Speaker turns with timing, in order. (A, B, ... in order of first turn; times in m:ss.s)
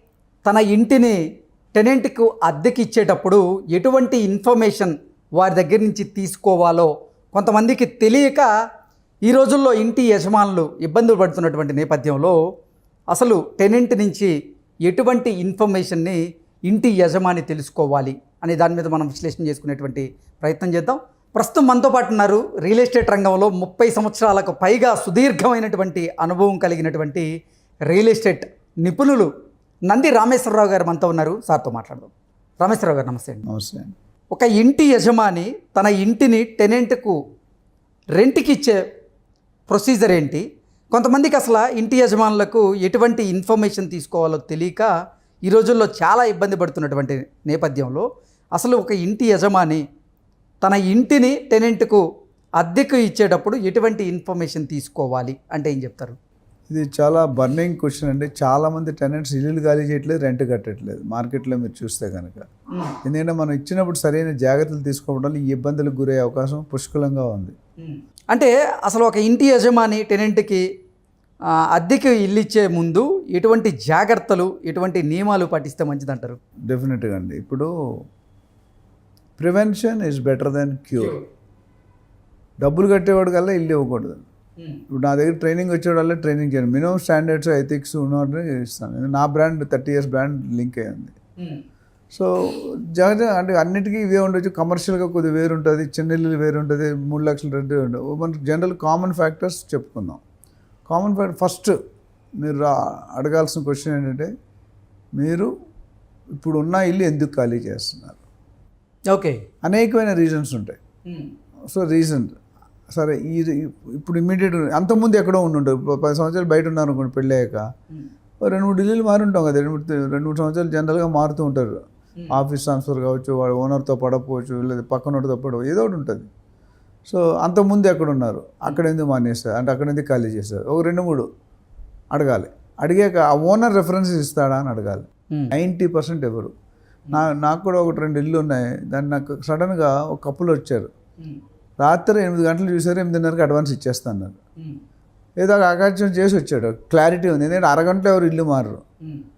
0:00.4-0:01.2 A
0:01.8-0:08.5 A
0:09.2-0:12.4 A
0:13.1-0:27.3 A
0:27.8-0:29.3 A
0:29.9-0:33.4 A
0:33.5-0:33.9 B
0:34.3-0:37.2 A
0:38.2-0:38.8 A
0:39.7-0:44.9 A
0:45.5-0:49.8 A
0:50.6-0:52.0 A
0:52.6-0:56.2 A
0:56.7-1:02.5 B
1:03.0-1:07.6 B
1:07.8-1:10.6 A
1:11.7-1:16.4 A
1:16.7-1:17.7 B
1:19.4-1:21.2 B
1:22.6-1:24.2 B
1:24.9-1:31.2 B
1:32.1-1:40.2 B
1:40.9-1:41.8 B
1:42.4-1:44.3 B
1:45.2-1:45.5 B
1:46.4-1:48.2 B
1:49.1-1:49.4 A
1:49.6-1:50.8 B
1:51.7-1:52.4 B
1:52.9-1:57.7 B
1:58.4-2:01.8 B
2:02.3-2:06.3 B
2:07.1-2:11.3 B
2:12.1-2:16.5 B
2:17.1-2:20.9 B
2:21.8-2:24.4 B
2:25.4-2:28.8 B